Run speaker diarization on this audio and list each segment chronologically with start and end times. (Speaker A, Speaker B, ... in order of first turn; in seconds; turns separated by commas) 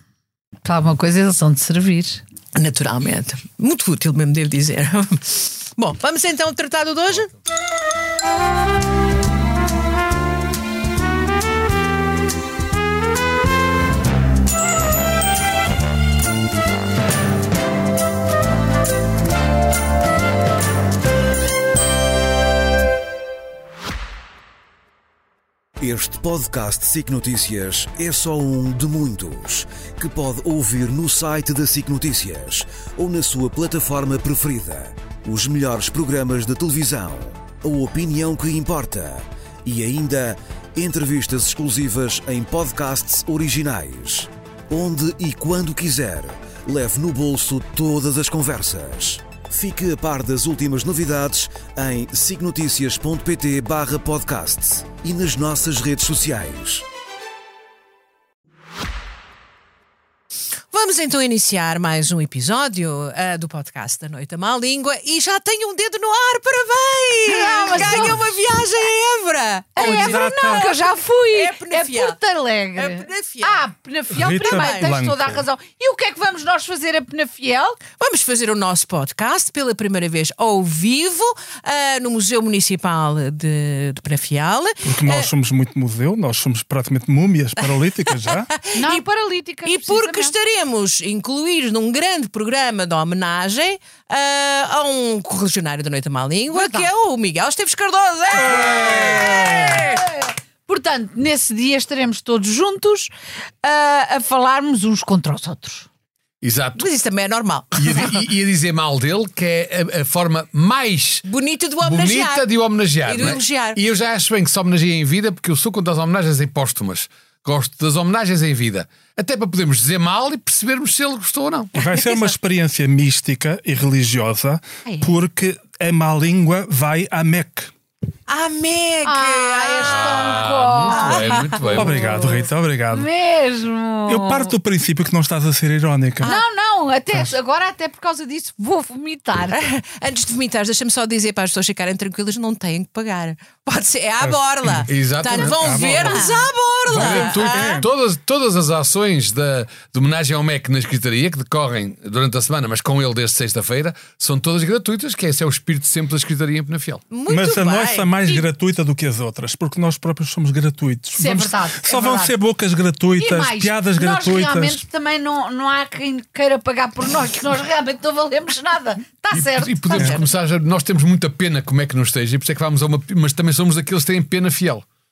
Speaker A: 0.6-2.2, Speaker B: 2.5-7.3, Speaker C: 25.8-56.8, Speaker B: 60.7-72.2, Speaker A: 67.3-68.2, Speaker D: 67.5-68.2, Speaker A: 69.8-77.8, Speaker D: 69.8-70.7, Speaker B: 72.8-73.6, Speaker D: 74.1-75.4, Speaker B: 74.3-74.9, Speaker B: 78.0-85.3, Speaker D: 84.8-88.5, Speaker B: 88.0-89.0, Speaker A: 88.7-90.3, Speaker B: 89.6-99.5, Speaker A: 96.5-96.9, Speaker D: 98.4-99.9, Speaker E: 98.4-99.4, Speaker A: 98.5-103.1, Speaker A: 103.6-105.9, Speaker E: 106.4-106.8, Speaker B: 106.8-108.2, Speaker E: 107.8-111.2, Speaker B: 111.3-112.5, Speaker E: 111.8-121.7, Speaker B: 113.0-113.8, Speaker D: 121.7-127.7, Speaker A: 124.8-125.2, Speaker B: 128.3-131.8, Speaker A: 129.0-134.5, Speaker E: 129.8-132.1, Speaker D: 131.7-133.1, Speaker D: 134.1-136.3, Speaker A: 136.2-139.6, Speaker B: 139.5-147.8, Speaker D: 144.2-146.3, Speaker E: 144.9-157.0, Speaker D: 146.9-147.9, Speaker B: 157.1-158.4, Speaker D: 157.3-164.8, Speaker A: 161.1-162.3, Speaker A: 163.2-170.2, Speaker E: 169.3-174.8, Speaker B: 169.9-170.2